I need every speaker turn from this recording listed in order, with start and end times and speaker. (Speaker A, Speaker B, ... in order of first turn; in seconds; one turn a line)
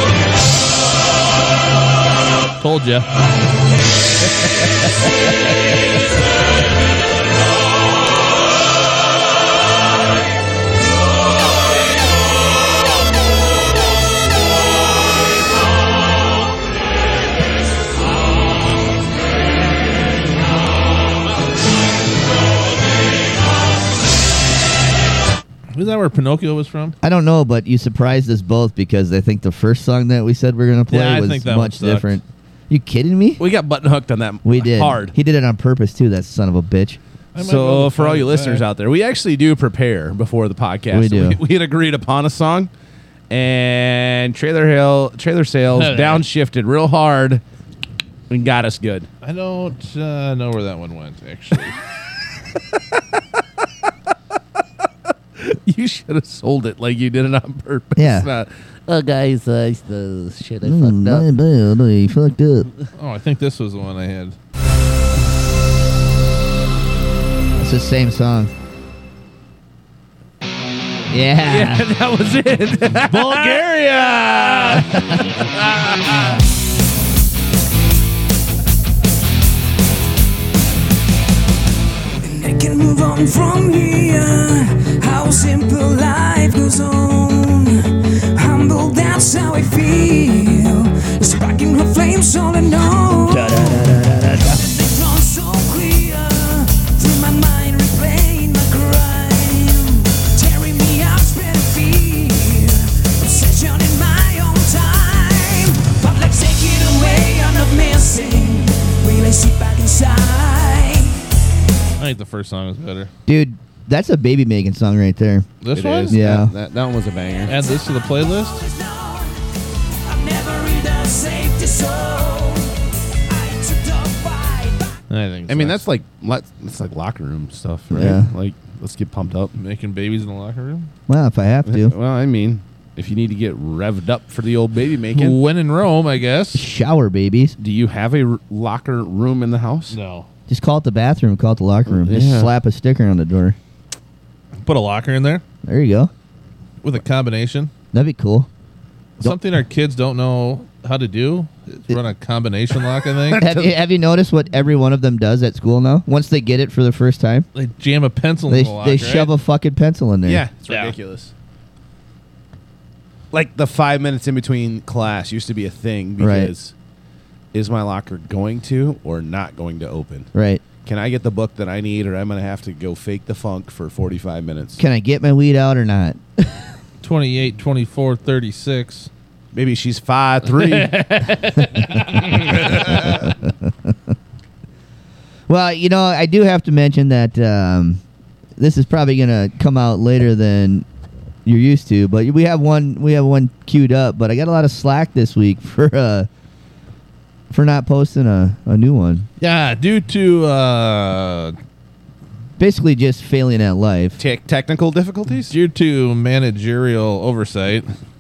Speaker A: 2.6-3.1
Speaker A: 25.7-27.0
Speaker B: 27.0-33.4
Speaker A: 30.9-32.2
Speaker C: 33.4-35.1
Speaker B: 34.5-37.0
Speaker A: 37.4-38.6
Speaker C: 37.4-42.7
Speaker B: 40.9-41.4
Speaker C: 43.3-47.4
Speaker A: 45.7-46.2
Speaker C: 48.3-49.1
Speaker A: 49.2-51.8
Speaker C: 55.4-61.2
Speaker B: 58.0-58.3
Speaker B: 60.6-62.7
Speaker A: 63.0-64.4
Speaker B: 67.6-68.5
Speaker B: 71.1-71.9
Speaker C: 71.4-73.6
Speaker A: 73.0-74.9
Speaker B: 75.0-75.3
Speaker D: 82.2-93.9
Speaker B: 93.3-94.6
Speaker D: 94.5-111.3
Speaker A: 112.0-113.1
Speaker B: 113.3-115.5
Speaker A: 115.6-116.2
Speaker C: 115.7-117.5
Speaker B: 116.1-116.5
Speaker A: 117.5-118.6
Speaker D: 117.5-119.4
Speaker D: 120.0-125.0
Speaker A: 125.1-125.8
Speaker C: 125.5-129.5
Speaker B: 127.9-128.3
Speaker A: 129.6-130.9
Speaker B: 131.1-131.9
Speaker C: 131.7-135.4
Speaker A: 135.1-136.7
Speaker B: 136.5-137.6
Speaker C: 137.6-140.0
Speaker A: 139.9-140.3
Speaker B: 140.5-143.6
Speaker C: 141.9-142.5
Speaker A: 144.6-145.4
Speaker B: 145.6-146.1
Speaker A: 146.8-147.7
Speaker B: 147.9-148.5
Speaker A: 149.2-153.5
Speaker C: 153.4-153.7
Speaker B: 153.4-157.5
Speaker A: 157.5-159.3
Speaker B: 158.5-160.4
Speaker C: 160.2-161.3
Speaker A: 160.7-160.9
Speaker C: 163.3-166.7
Speaker B: 166.2-166.5
Speaker C: 167.5-170.3
Speaker B: 170.3-170.6
Speaker C: 170.8-174.8
Speaker B: 174.8-176.7
Speaker A: 177.0-179.1
Speaker C: 179.5-181.0
Speaker A: 180.5-183.0
Speaker C: 182.4-183.0
Speaker B: 185.5-188.0
Speaker B: 188.6-190.9
Speaker B: 191.4-196.3
Speaker B: 197.5-199.3
Speaker A: 199.4-201.6
Speaker B: 202.6-204.2
Speaker C: 204.2-205.5
Speaker A: 205.5-207.9